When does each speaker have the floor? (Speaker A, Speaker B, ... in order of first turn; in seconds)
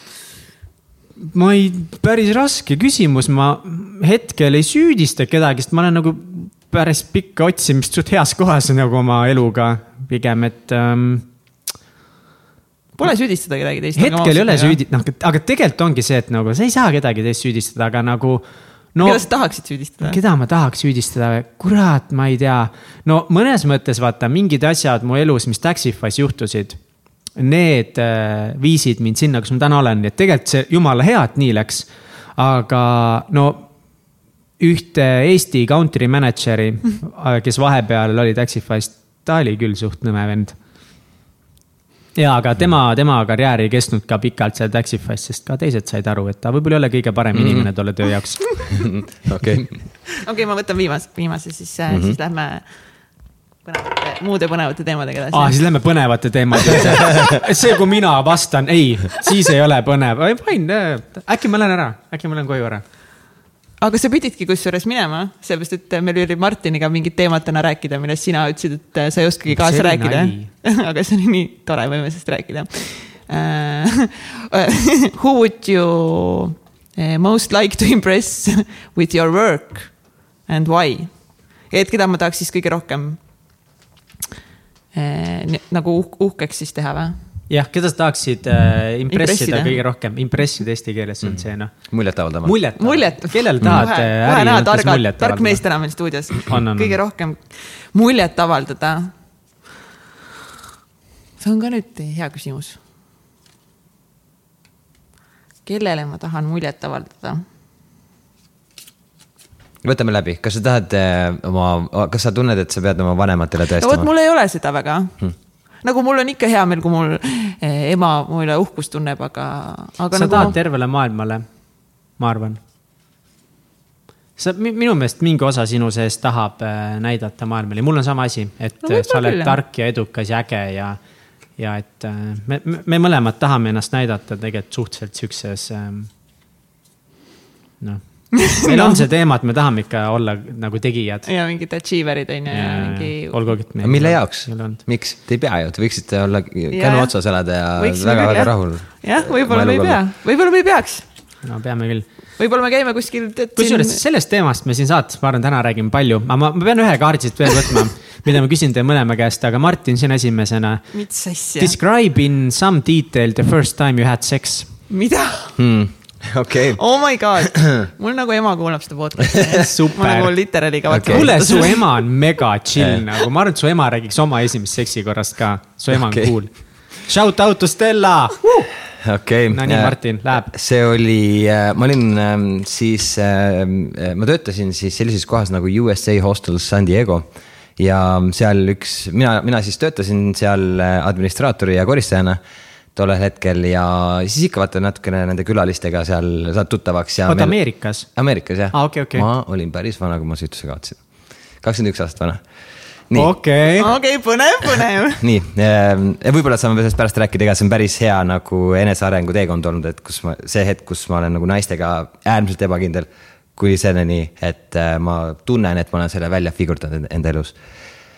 Speaker A: 1.2-11.3, 13.9-19.2, 20.0-26.8, 27.4-33.7, 34.6-40.5, 42.1-48.9, 55.3-62.8, 69.5-70.5, 87.5-91.9, 92.4-95.6, 96.4-97.0, 120.1-121.5, 122.2-122.6, 124.4-131.0, 131.6-136.1, 137.8-141.2, 142.5-144.8, 151.4-152.1, 153.6-160.8, 161.6-164.7, 169.5-170.3, 171.1-178.7, 179.5-180.5, 197.2-198.1, 198.7-199.2, 203.1-203.9
Speaker B: 13.0-14.8, 19.0-20.2, 50.1-52.7, 53.6-55.6, 63.8-83.2, 84.9-87.2, 89.1-89.8, 92.8-99.1, 101.4-102.8, 105.6-107.4, 113.7-120.5, 128.8-129.6, 138.4-139.0, 141.2-143.5, 146.7-151.1, 152.4-154.0, 160.9-161.7, 164.9-165.6, 166.8-172.1, 203.8-205.2
Speaker C: 47.3-47.7, 48.8-49.9, 51.9-52.2, 91.3-92.6, 93.6-93.9, 109.8-114.1, 143.8-150.0, 165.6-166.8, 170.9-171.4, 172.7-173.0, 175.9-176.3, 179.0-192.4, 192.9-201.0, 201.6-202.4, 203.1-203.4, 205.2-217.6